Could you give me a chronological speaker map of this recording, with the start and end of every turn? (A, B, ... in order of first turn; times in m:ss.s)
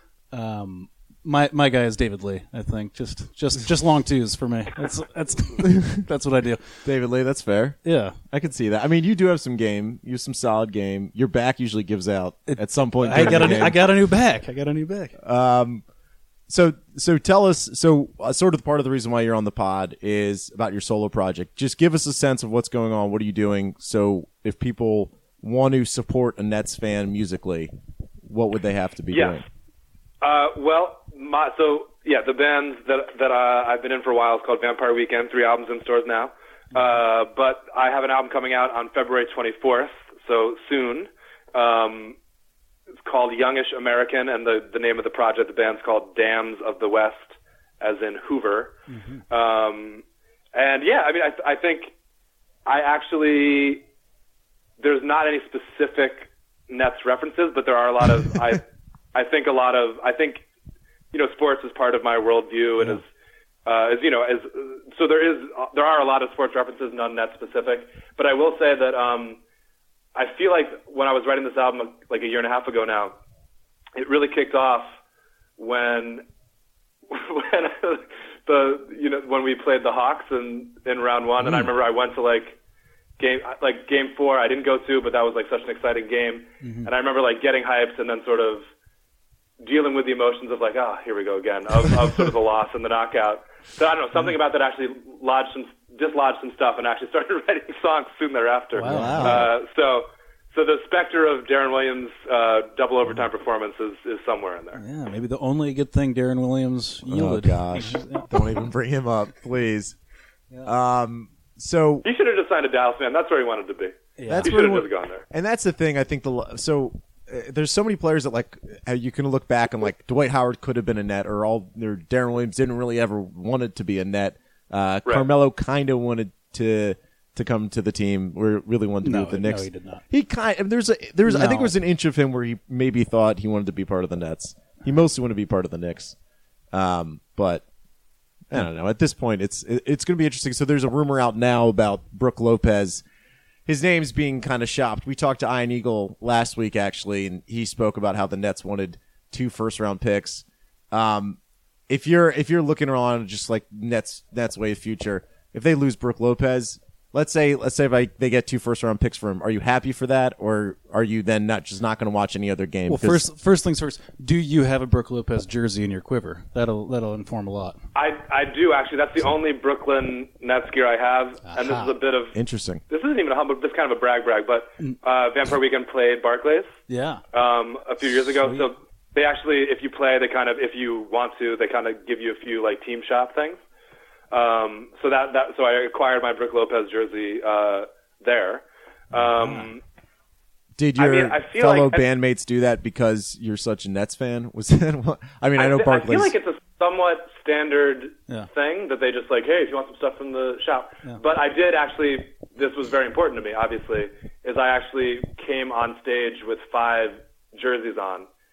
0:00.3-0:06.8 A
0:05.6-0:06.0 B
0:06.8-0:07.8 B
0:07.8-0:08.2 A
0:08.3-0:13.8 B
0:12.5-0:15.2 A
0:15.2-0:15.8 B
0:16.5-0:27.7 B
0:28.2-0:29.4 B
0:29.1-0:29.4 C
0:30.2-0:42.2 C
0:43.0-0:48.7 C
0:48.9-0:49.2 A
0:49.3-0:51.9 C
0:52.6-0:53.8 C
0:54.8-1:00.4 C
1:01.1-1:03.0 C
1:03.6-1:09.4 C
1:10.1-1:13.1 C
1:13.9-1:14.9 C
1:15.6-1:16.2 C
1:17.1-1:22.6 C
1:21.4-1:21.7 A
1:23.2-1:28.6 C
1:26.6-1:26.9 A
1:29.6-1:44.8 C
1:38.7-1:39.5 A
1:38.8-1:39.5 B
1:44.8-1:48.4 A
1:47.1-1:50.0 B
1:50.6-1:52.0 B
1:52.0-1:55.2 C
1:54.2-1:54.5 A
1:54.3-2:16.2 B
2:09.0-2:10.0 A
2:11.3-2:11.7 A
2:16.7-2:17.6 B
2:18.5-2:23.0 B
2:23.7-2:31.4 B
2:31.9-2:43.2 B
2:42.9-2:47.8 A
2:47.9-2:52.4 C
2:51.5-2:51.9 A
2:52.3-2:52.8 B
2:52.9-2:56.7 C
2:56.9-2:57.2 A
2:57.3-3:03.6 C
2:58.4-2:58.7 A
3:04.3-3:09.8 C
3:09.1-3:09.7 A
3:10.8-3:16.4 B
3:11.0-3:12.0 C
3:15.6-3:28.3 C